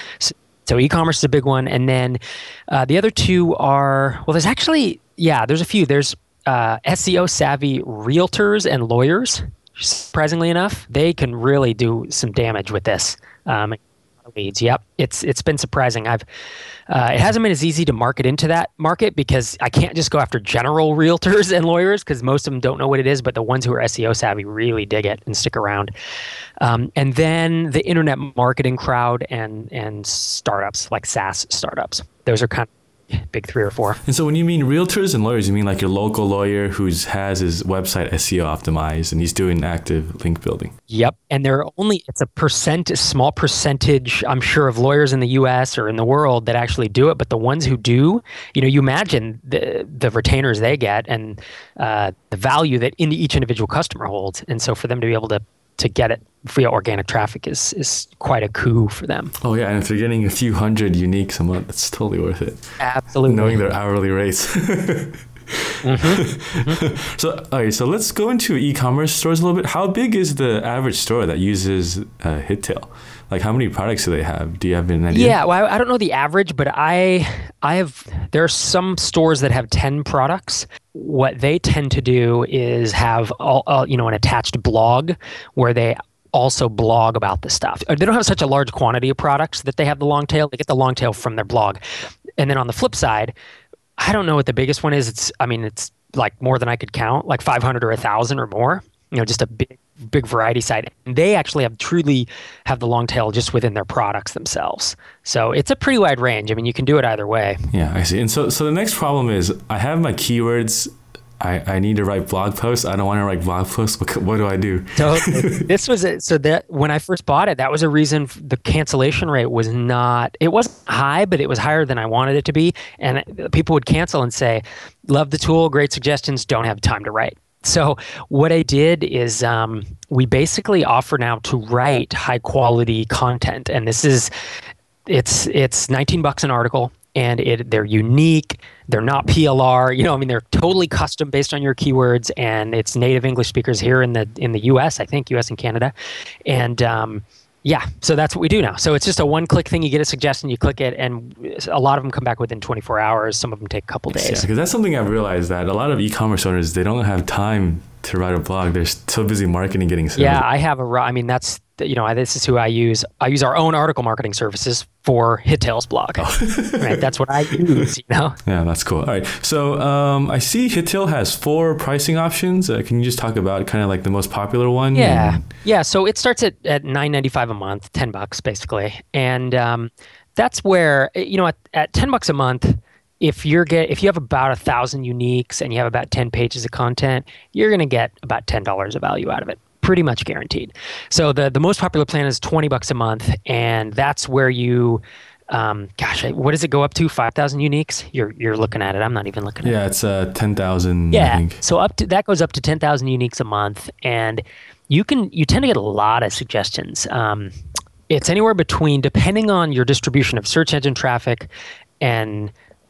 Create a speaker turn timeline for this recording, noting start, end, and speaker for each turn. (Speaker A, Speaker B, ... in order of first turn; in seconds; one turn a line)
Speaker A: 0.2-16.2
Speaker A: 16.9-25.9
Speaker A: 26.6-34.0
Speaker B: 34.0-40.7
Speaker A: 40.9-59.3
Speaker B: 59.4-62.6
Speaker A: 62.8-63.6
Speaker B: 63.2-75.4
Speaker A: 65.8-66.8
Speaker A: 75.1-91.8
Speaker A: 92.4-93.3
Speaker A: 94.0-107.7
Speaker B: 107.7-115.6
Speaker A: 115.0-134.3
Speaker A: 135.1-145.9
Speaker A: 146.4-154.5
Speaker B: 154.1-160.4
Speaker A: 160.2-168.4
Speaker B: 166.2-167.0
Speaker B: 168.4-175.4
Speaker A: 174.9-199.8
Speaker B: 199.6-201.6
Speaker A: 201.1-207.5
Speaker A: 208.1-211.5
Speaker A: 212.0-212.5